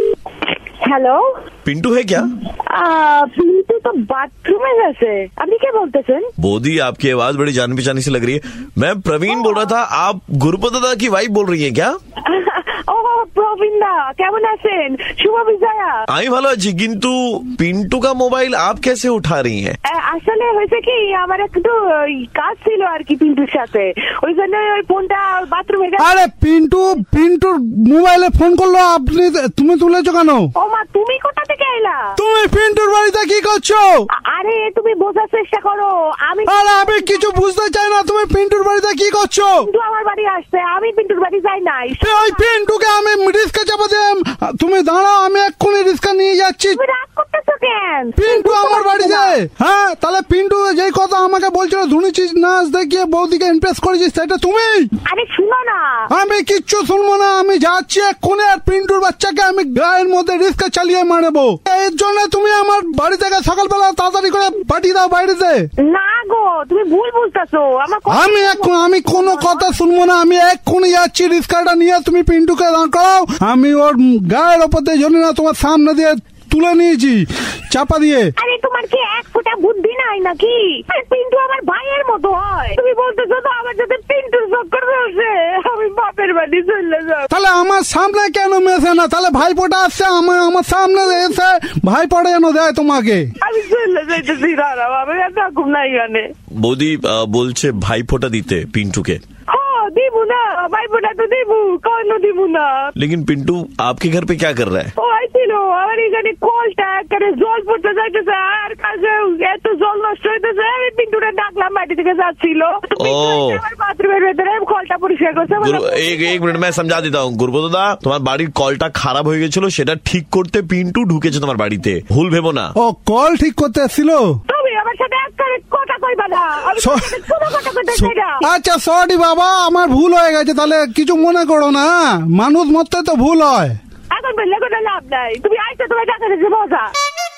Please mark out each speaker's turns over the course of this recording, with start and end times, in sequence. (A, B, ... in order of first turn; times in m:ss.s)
0:00.8-0:01.2 A
0:01.6-0:02.3 B
0:02.7-0:06.3 A
0:06.4-0:12.0 B
0:09.3-0:09.7 A
0:12.2-0:16.0 A
0:16.1-0:19.8 B
0:19.8-0:26.2 A
0:26.0-0:30.5 C
0:30.5-0:32.1 A
0:32.2-0:34.1 C
0:34.1-0:37.3 A
0:36.5-0:39.6 C
0:39.6-0:42.6 A
0:42.0-0:46.8 C
0:46.7-0:49.4 A
0:48.2-0:54.9 C
0:55.0-0:56.1 A
0:56.1-1:05.7 C
1:05.8-1:09.7 A
1:08.1-1:18.3 C
1:18.4-1:27.3 A
1:27.3-1:33.3 C
1:33.4-1:36.3 A
1:36.6-1:39.2 B
1:39.5-1:42.9 A
1:43.0-1:44.9 B
1:45.0-1:56.6 A
1:53.0-1:53.6 B
1:55.6-2:02.7 B
2:02.8-2:04.4 C
2:04.5-2:08.4 A
2:06.8-2:07.2 C
2:07.9-2:13.8 C
2:14.1-2:16.9 A